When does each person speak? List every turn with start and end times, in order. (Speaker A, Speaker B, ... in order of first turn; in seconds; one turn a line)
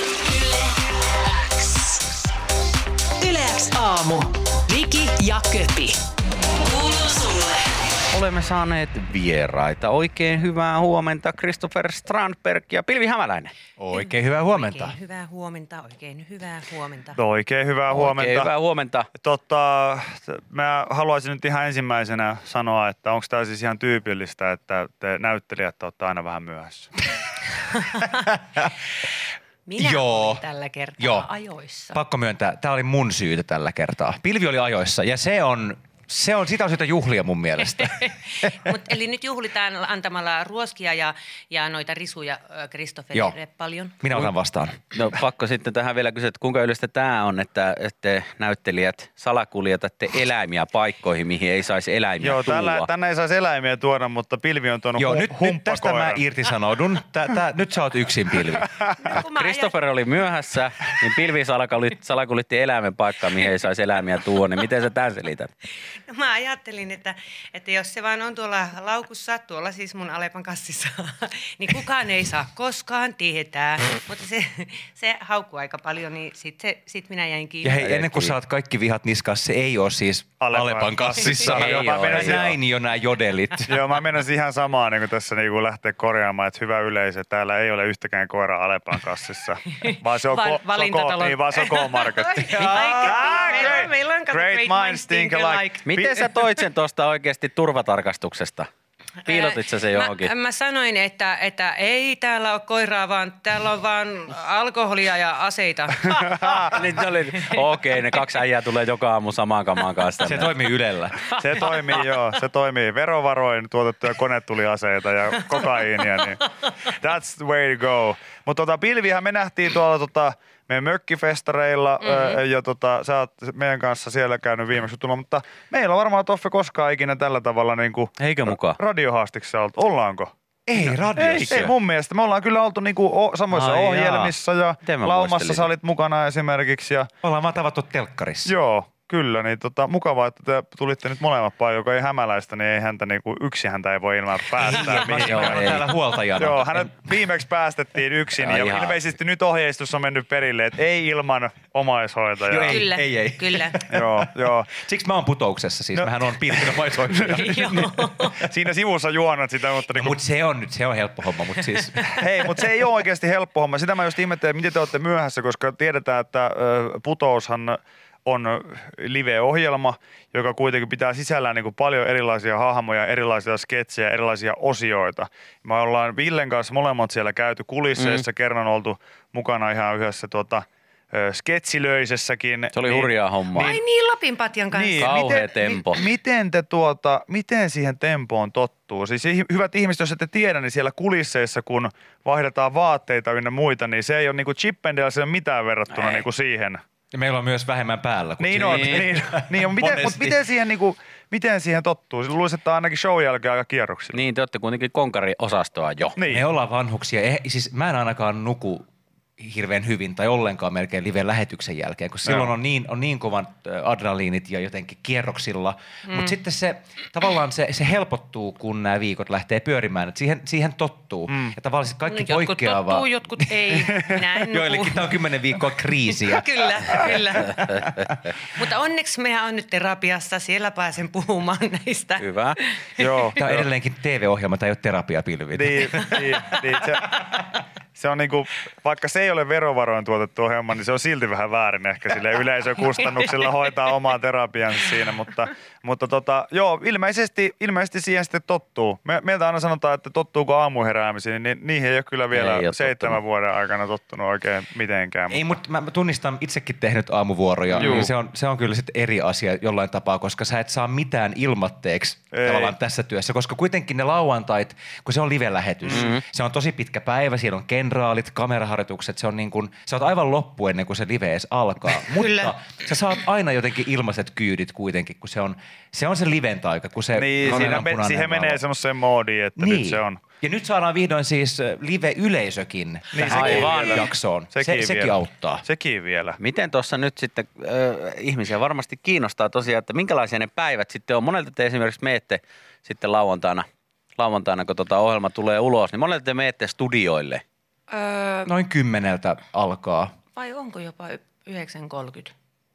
Speaker A: 3.2-6.0
Speaker B: 8.1-13.5
Speaker C: 13.8-14.9
Speaker D: 13.9-17.2
Speaker E: 17.1-18.5
Speaker B: 17.9-19.1
Speaker E: 19.2-26.9
Speaker D: 27.7-28.1
Speaker D: 29.6-32.0
Speaker C: 29.8-30.4
Speaker C: 31.0-31.3
Speaker C: 31.9-38.1
Speaker D: 37.7-44.0
Speaker C: 44.0-44.8
Speaker B: 44.9-52.9
Speaker E: 52.2-56.2
Speaker C: 55.0-58.7
Speaker E: 58.6-59.0
Speaker D: 59.0-59.8
Speaker B: 59.3-65.5
Speaker D: 66.1-77.8
Speaker C: 77.6-83.7
Speaker B: 77.8-78.3
Speaker E: 80.4-82.5
Speaker B: 81.3-82.5
Speaker E: 83.6-96.3
Speaker D: 89.8-95.9
Speaker C: 92.5-93.8
Speaker B: 92.5-93.2
Speaker B: 95.8-98.7
Speaker D: 99.2-106.8
Speaker B: 99.2-100.3
Speaker E: 106.1-106.7
Speaker B: 106.7-110.5
Speaker D: 107.5-108.2
Speaker C: 110.2-111.2
Speaker E: 111.3-137.1
Speaker B: 128.2-128.8
Speaker C: 130.7-131.7
Speaker B: 131.2-131.7
Speaker C: 133.5-134.0
Speaker B: 133.8-135.7
Speaker C: 137.2-138.5
Speaker E: 138.4-152.9
Speaker C: 144.5-146.9
Speaker B: 145.0-145.8
Speaker B: 148.4-149.1
Speaker C: 152.5-157.9
Speaker D: 152.7-153.8
Speaker E: 153.9-154.7
Speaker E: 156.6-160.2
Speaker D: 157.2-158.4
Speaker C: 159.9-162.1
Speaker E: 162.1-183.8
Speaker B: 177.9-178.2
Speaker B: 182.7-183.8
Speaker D: 183.6-185.2
Speaker E: 184.7-196.8
Speaker B: 185.0-186.0
Speaker B: 195.9-196.2
Speaker C: 197.1-200.4
Speaker E: 198.4-204.2
Speaker B: 198.6-199.0
Speaker B: 204.1-206.2
Speaker E: 206.2-206.4
Speaker C: 206.3-208.9
Speaker C: 209.4-227.5
Speaker E: 212.2-212.5
Speaker D: 216.1-216.3
Speaker D: 222.0-227.7
Speaker D: 228.5-233.1
Speaker B: 232.2-232.6
Speaker E: 233.0-233.7
Speaker C: 233.3-236.6
Speaker E: 235.5-237.4
Speaker E: 237.9-255.6
Speaker B: 252.3-253.2
Speaker C: 255.3-278.6
Speaker B: 257.7-258.1
Speaker E: 257.8-258.1
Speaker E: 262.3-262.8
Speaker B: 265.9-266.2
Speaker D: 272.1-272.6
Speaker E: 277.1-280.2
Speaker B: 277.4-277.8
Speaker C: 279.6-285.6
Speaker E: 283.1-286.4
Speaker B: 283.2-284.1
Speaker B: 286.4-297.4
Speaker D: 297.9-298.5
Speaker C: 298.4-300.1
Speaker D: 300.3-302.3